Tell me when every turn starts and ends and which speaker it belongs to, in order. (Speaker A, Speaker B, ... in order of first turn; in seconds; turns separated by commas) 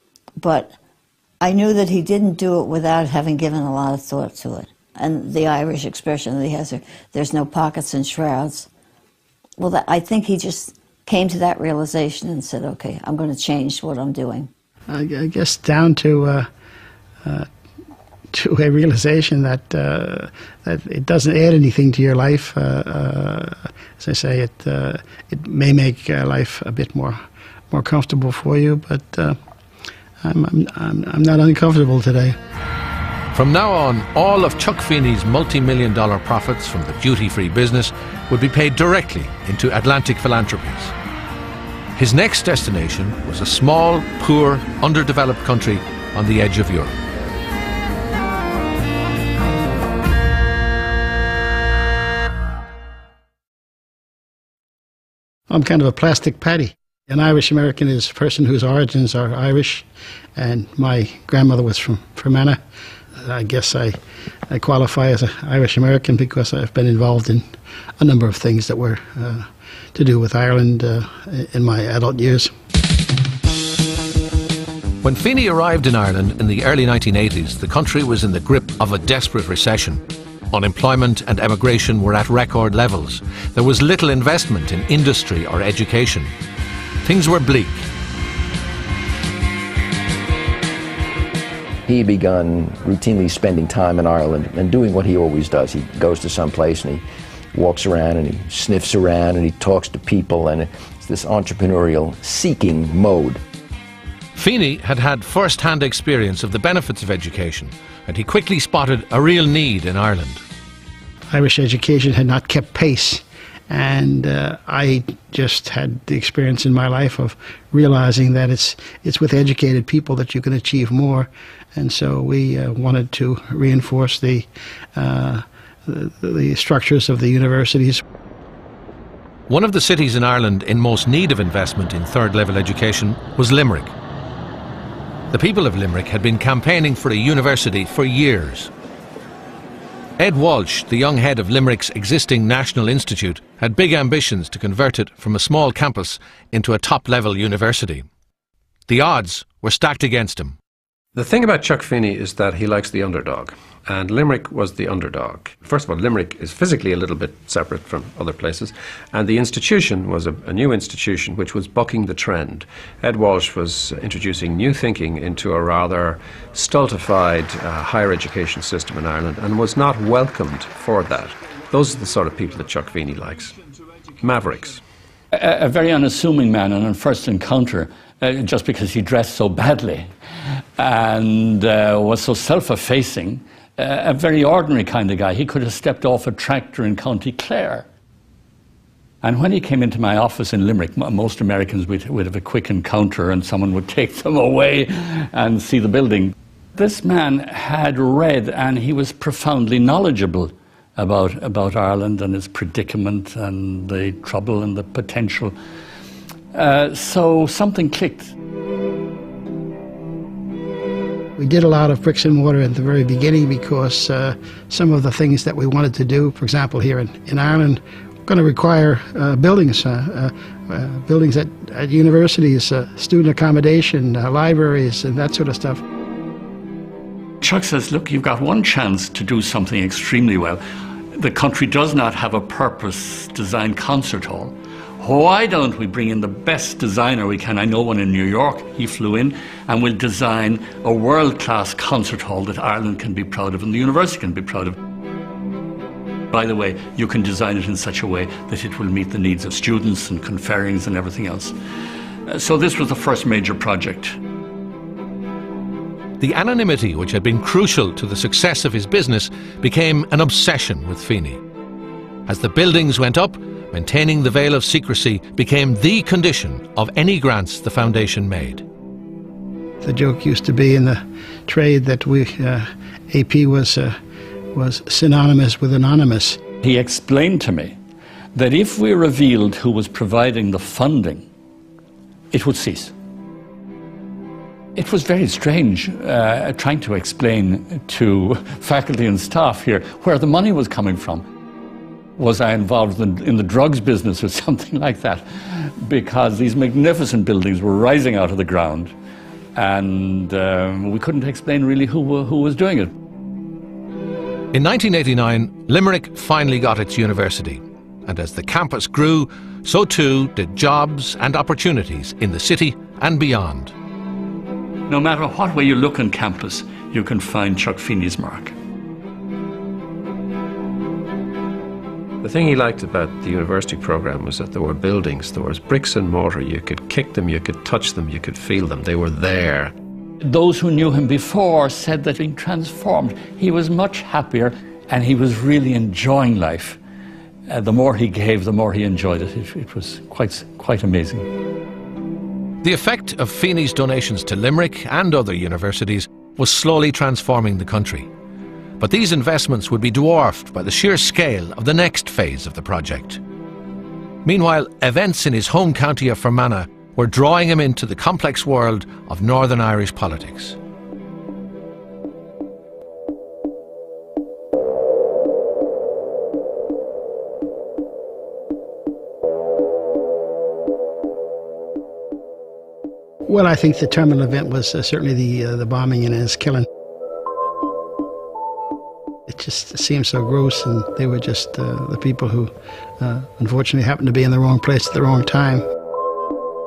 Speaker A: 0.4-0.8, Speaker A: 1.4-8.7, Speaker A: 9.6-14.5, Speaker B: 14.9-16.5, Speaker B: 18.3-27.2, Speaker B: 27.7-29.4, Speaker B: 30.2-32.4, Speaker C: 33.3-41.0, Speaker C: 42.0-47.0, Speaker B: 55.5-62.6, Speaker B: 63.2-64.0, Speaker B: 64.5-67.5, Speaker B: 68.0-72.5, Speaker C: 75.0-86.3, Speaker C: 87.0-87.9, Speaker D: 91.9-103.4, Speaker C: 104.3-110.4, Speaker B: 111.3-128.0, Speaker C: 129.5-133.9, Speaker C: 135.3-138.7, Speaker C: 140.2-148.1, Speaker C: 148.9-150.6, Speaker E: 151.2-173.6, Speaker E: 174.2-174.8, Speaker F: 175.3-180.1, Speaker F: 180.8-187.8, Speaker F: 189.2-205.6, Speaker F: 206.5-208.3, Speaker B: 211.4-225.8, Speaker F: 227.4-230.6, Speaker F: 231.2-244.8, Speaker F: 246.3-251.5, Speaker F: 252.3-254.2, Speaker C: 256.2-261.4, Speaker C: 262.3-268.6, Speaker B: 269.8-273.9, Speaker B: 274.5-276.4, Speaker F: 276.6-277.8, Speaker F: 278.4-281.2, Speaker F: 282.3-282.9, Speaker F: 284.8-291.3, Speaker F: 292.2-298.9, Speaker F: 299.6-302.9, Speaker C: 304.5-313.7, Speaker F: 314.9-318.5, Speaker E: 322.2-329.7, Speaker F: 330.2-336.8, Speaker F: 337.5-341.3, Speaker C: 342.6-348.1, Speaker C: 348.8-353.2, Speaker C: 354.2-360.6, Speaker B: 373.2-376.7, Speaker B: 379.3-385.6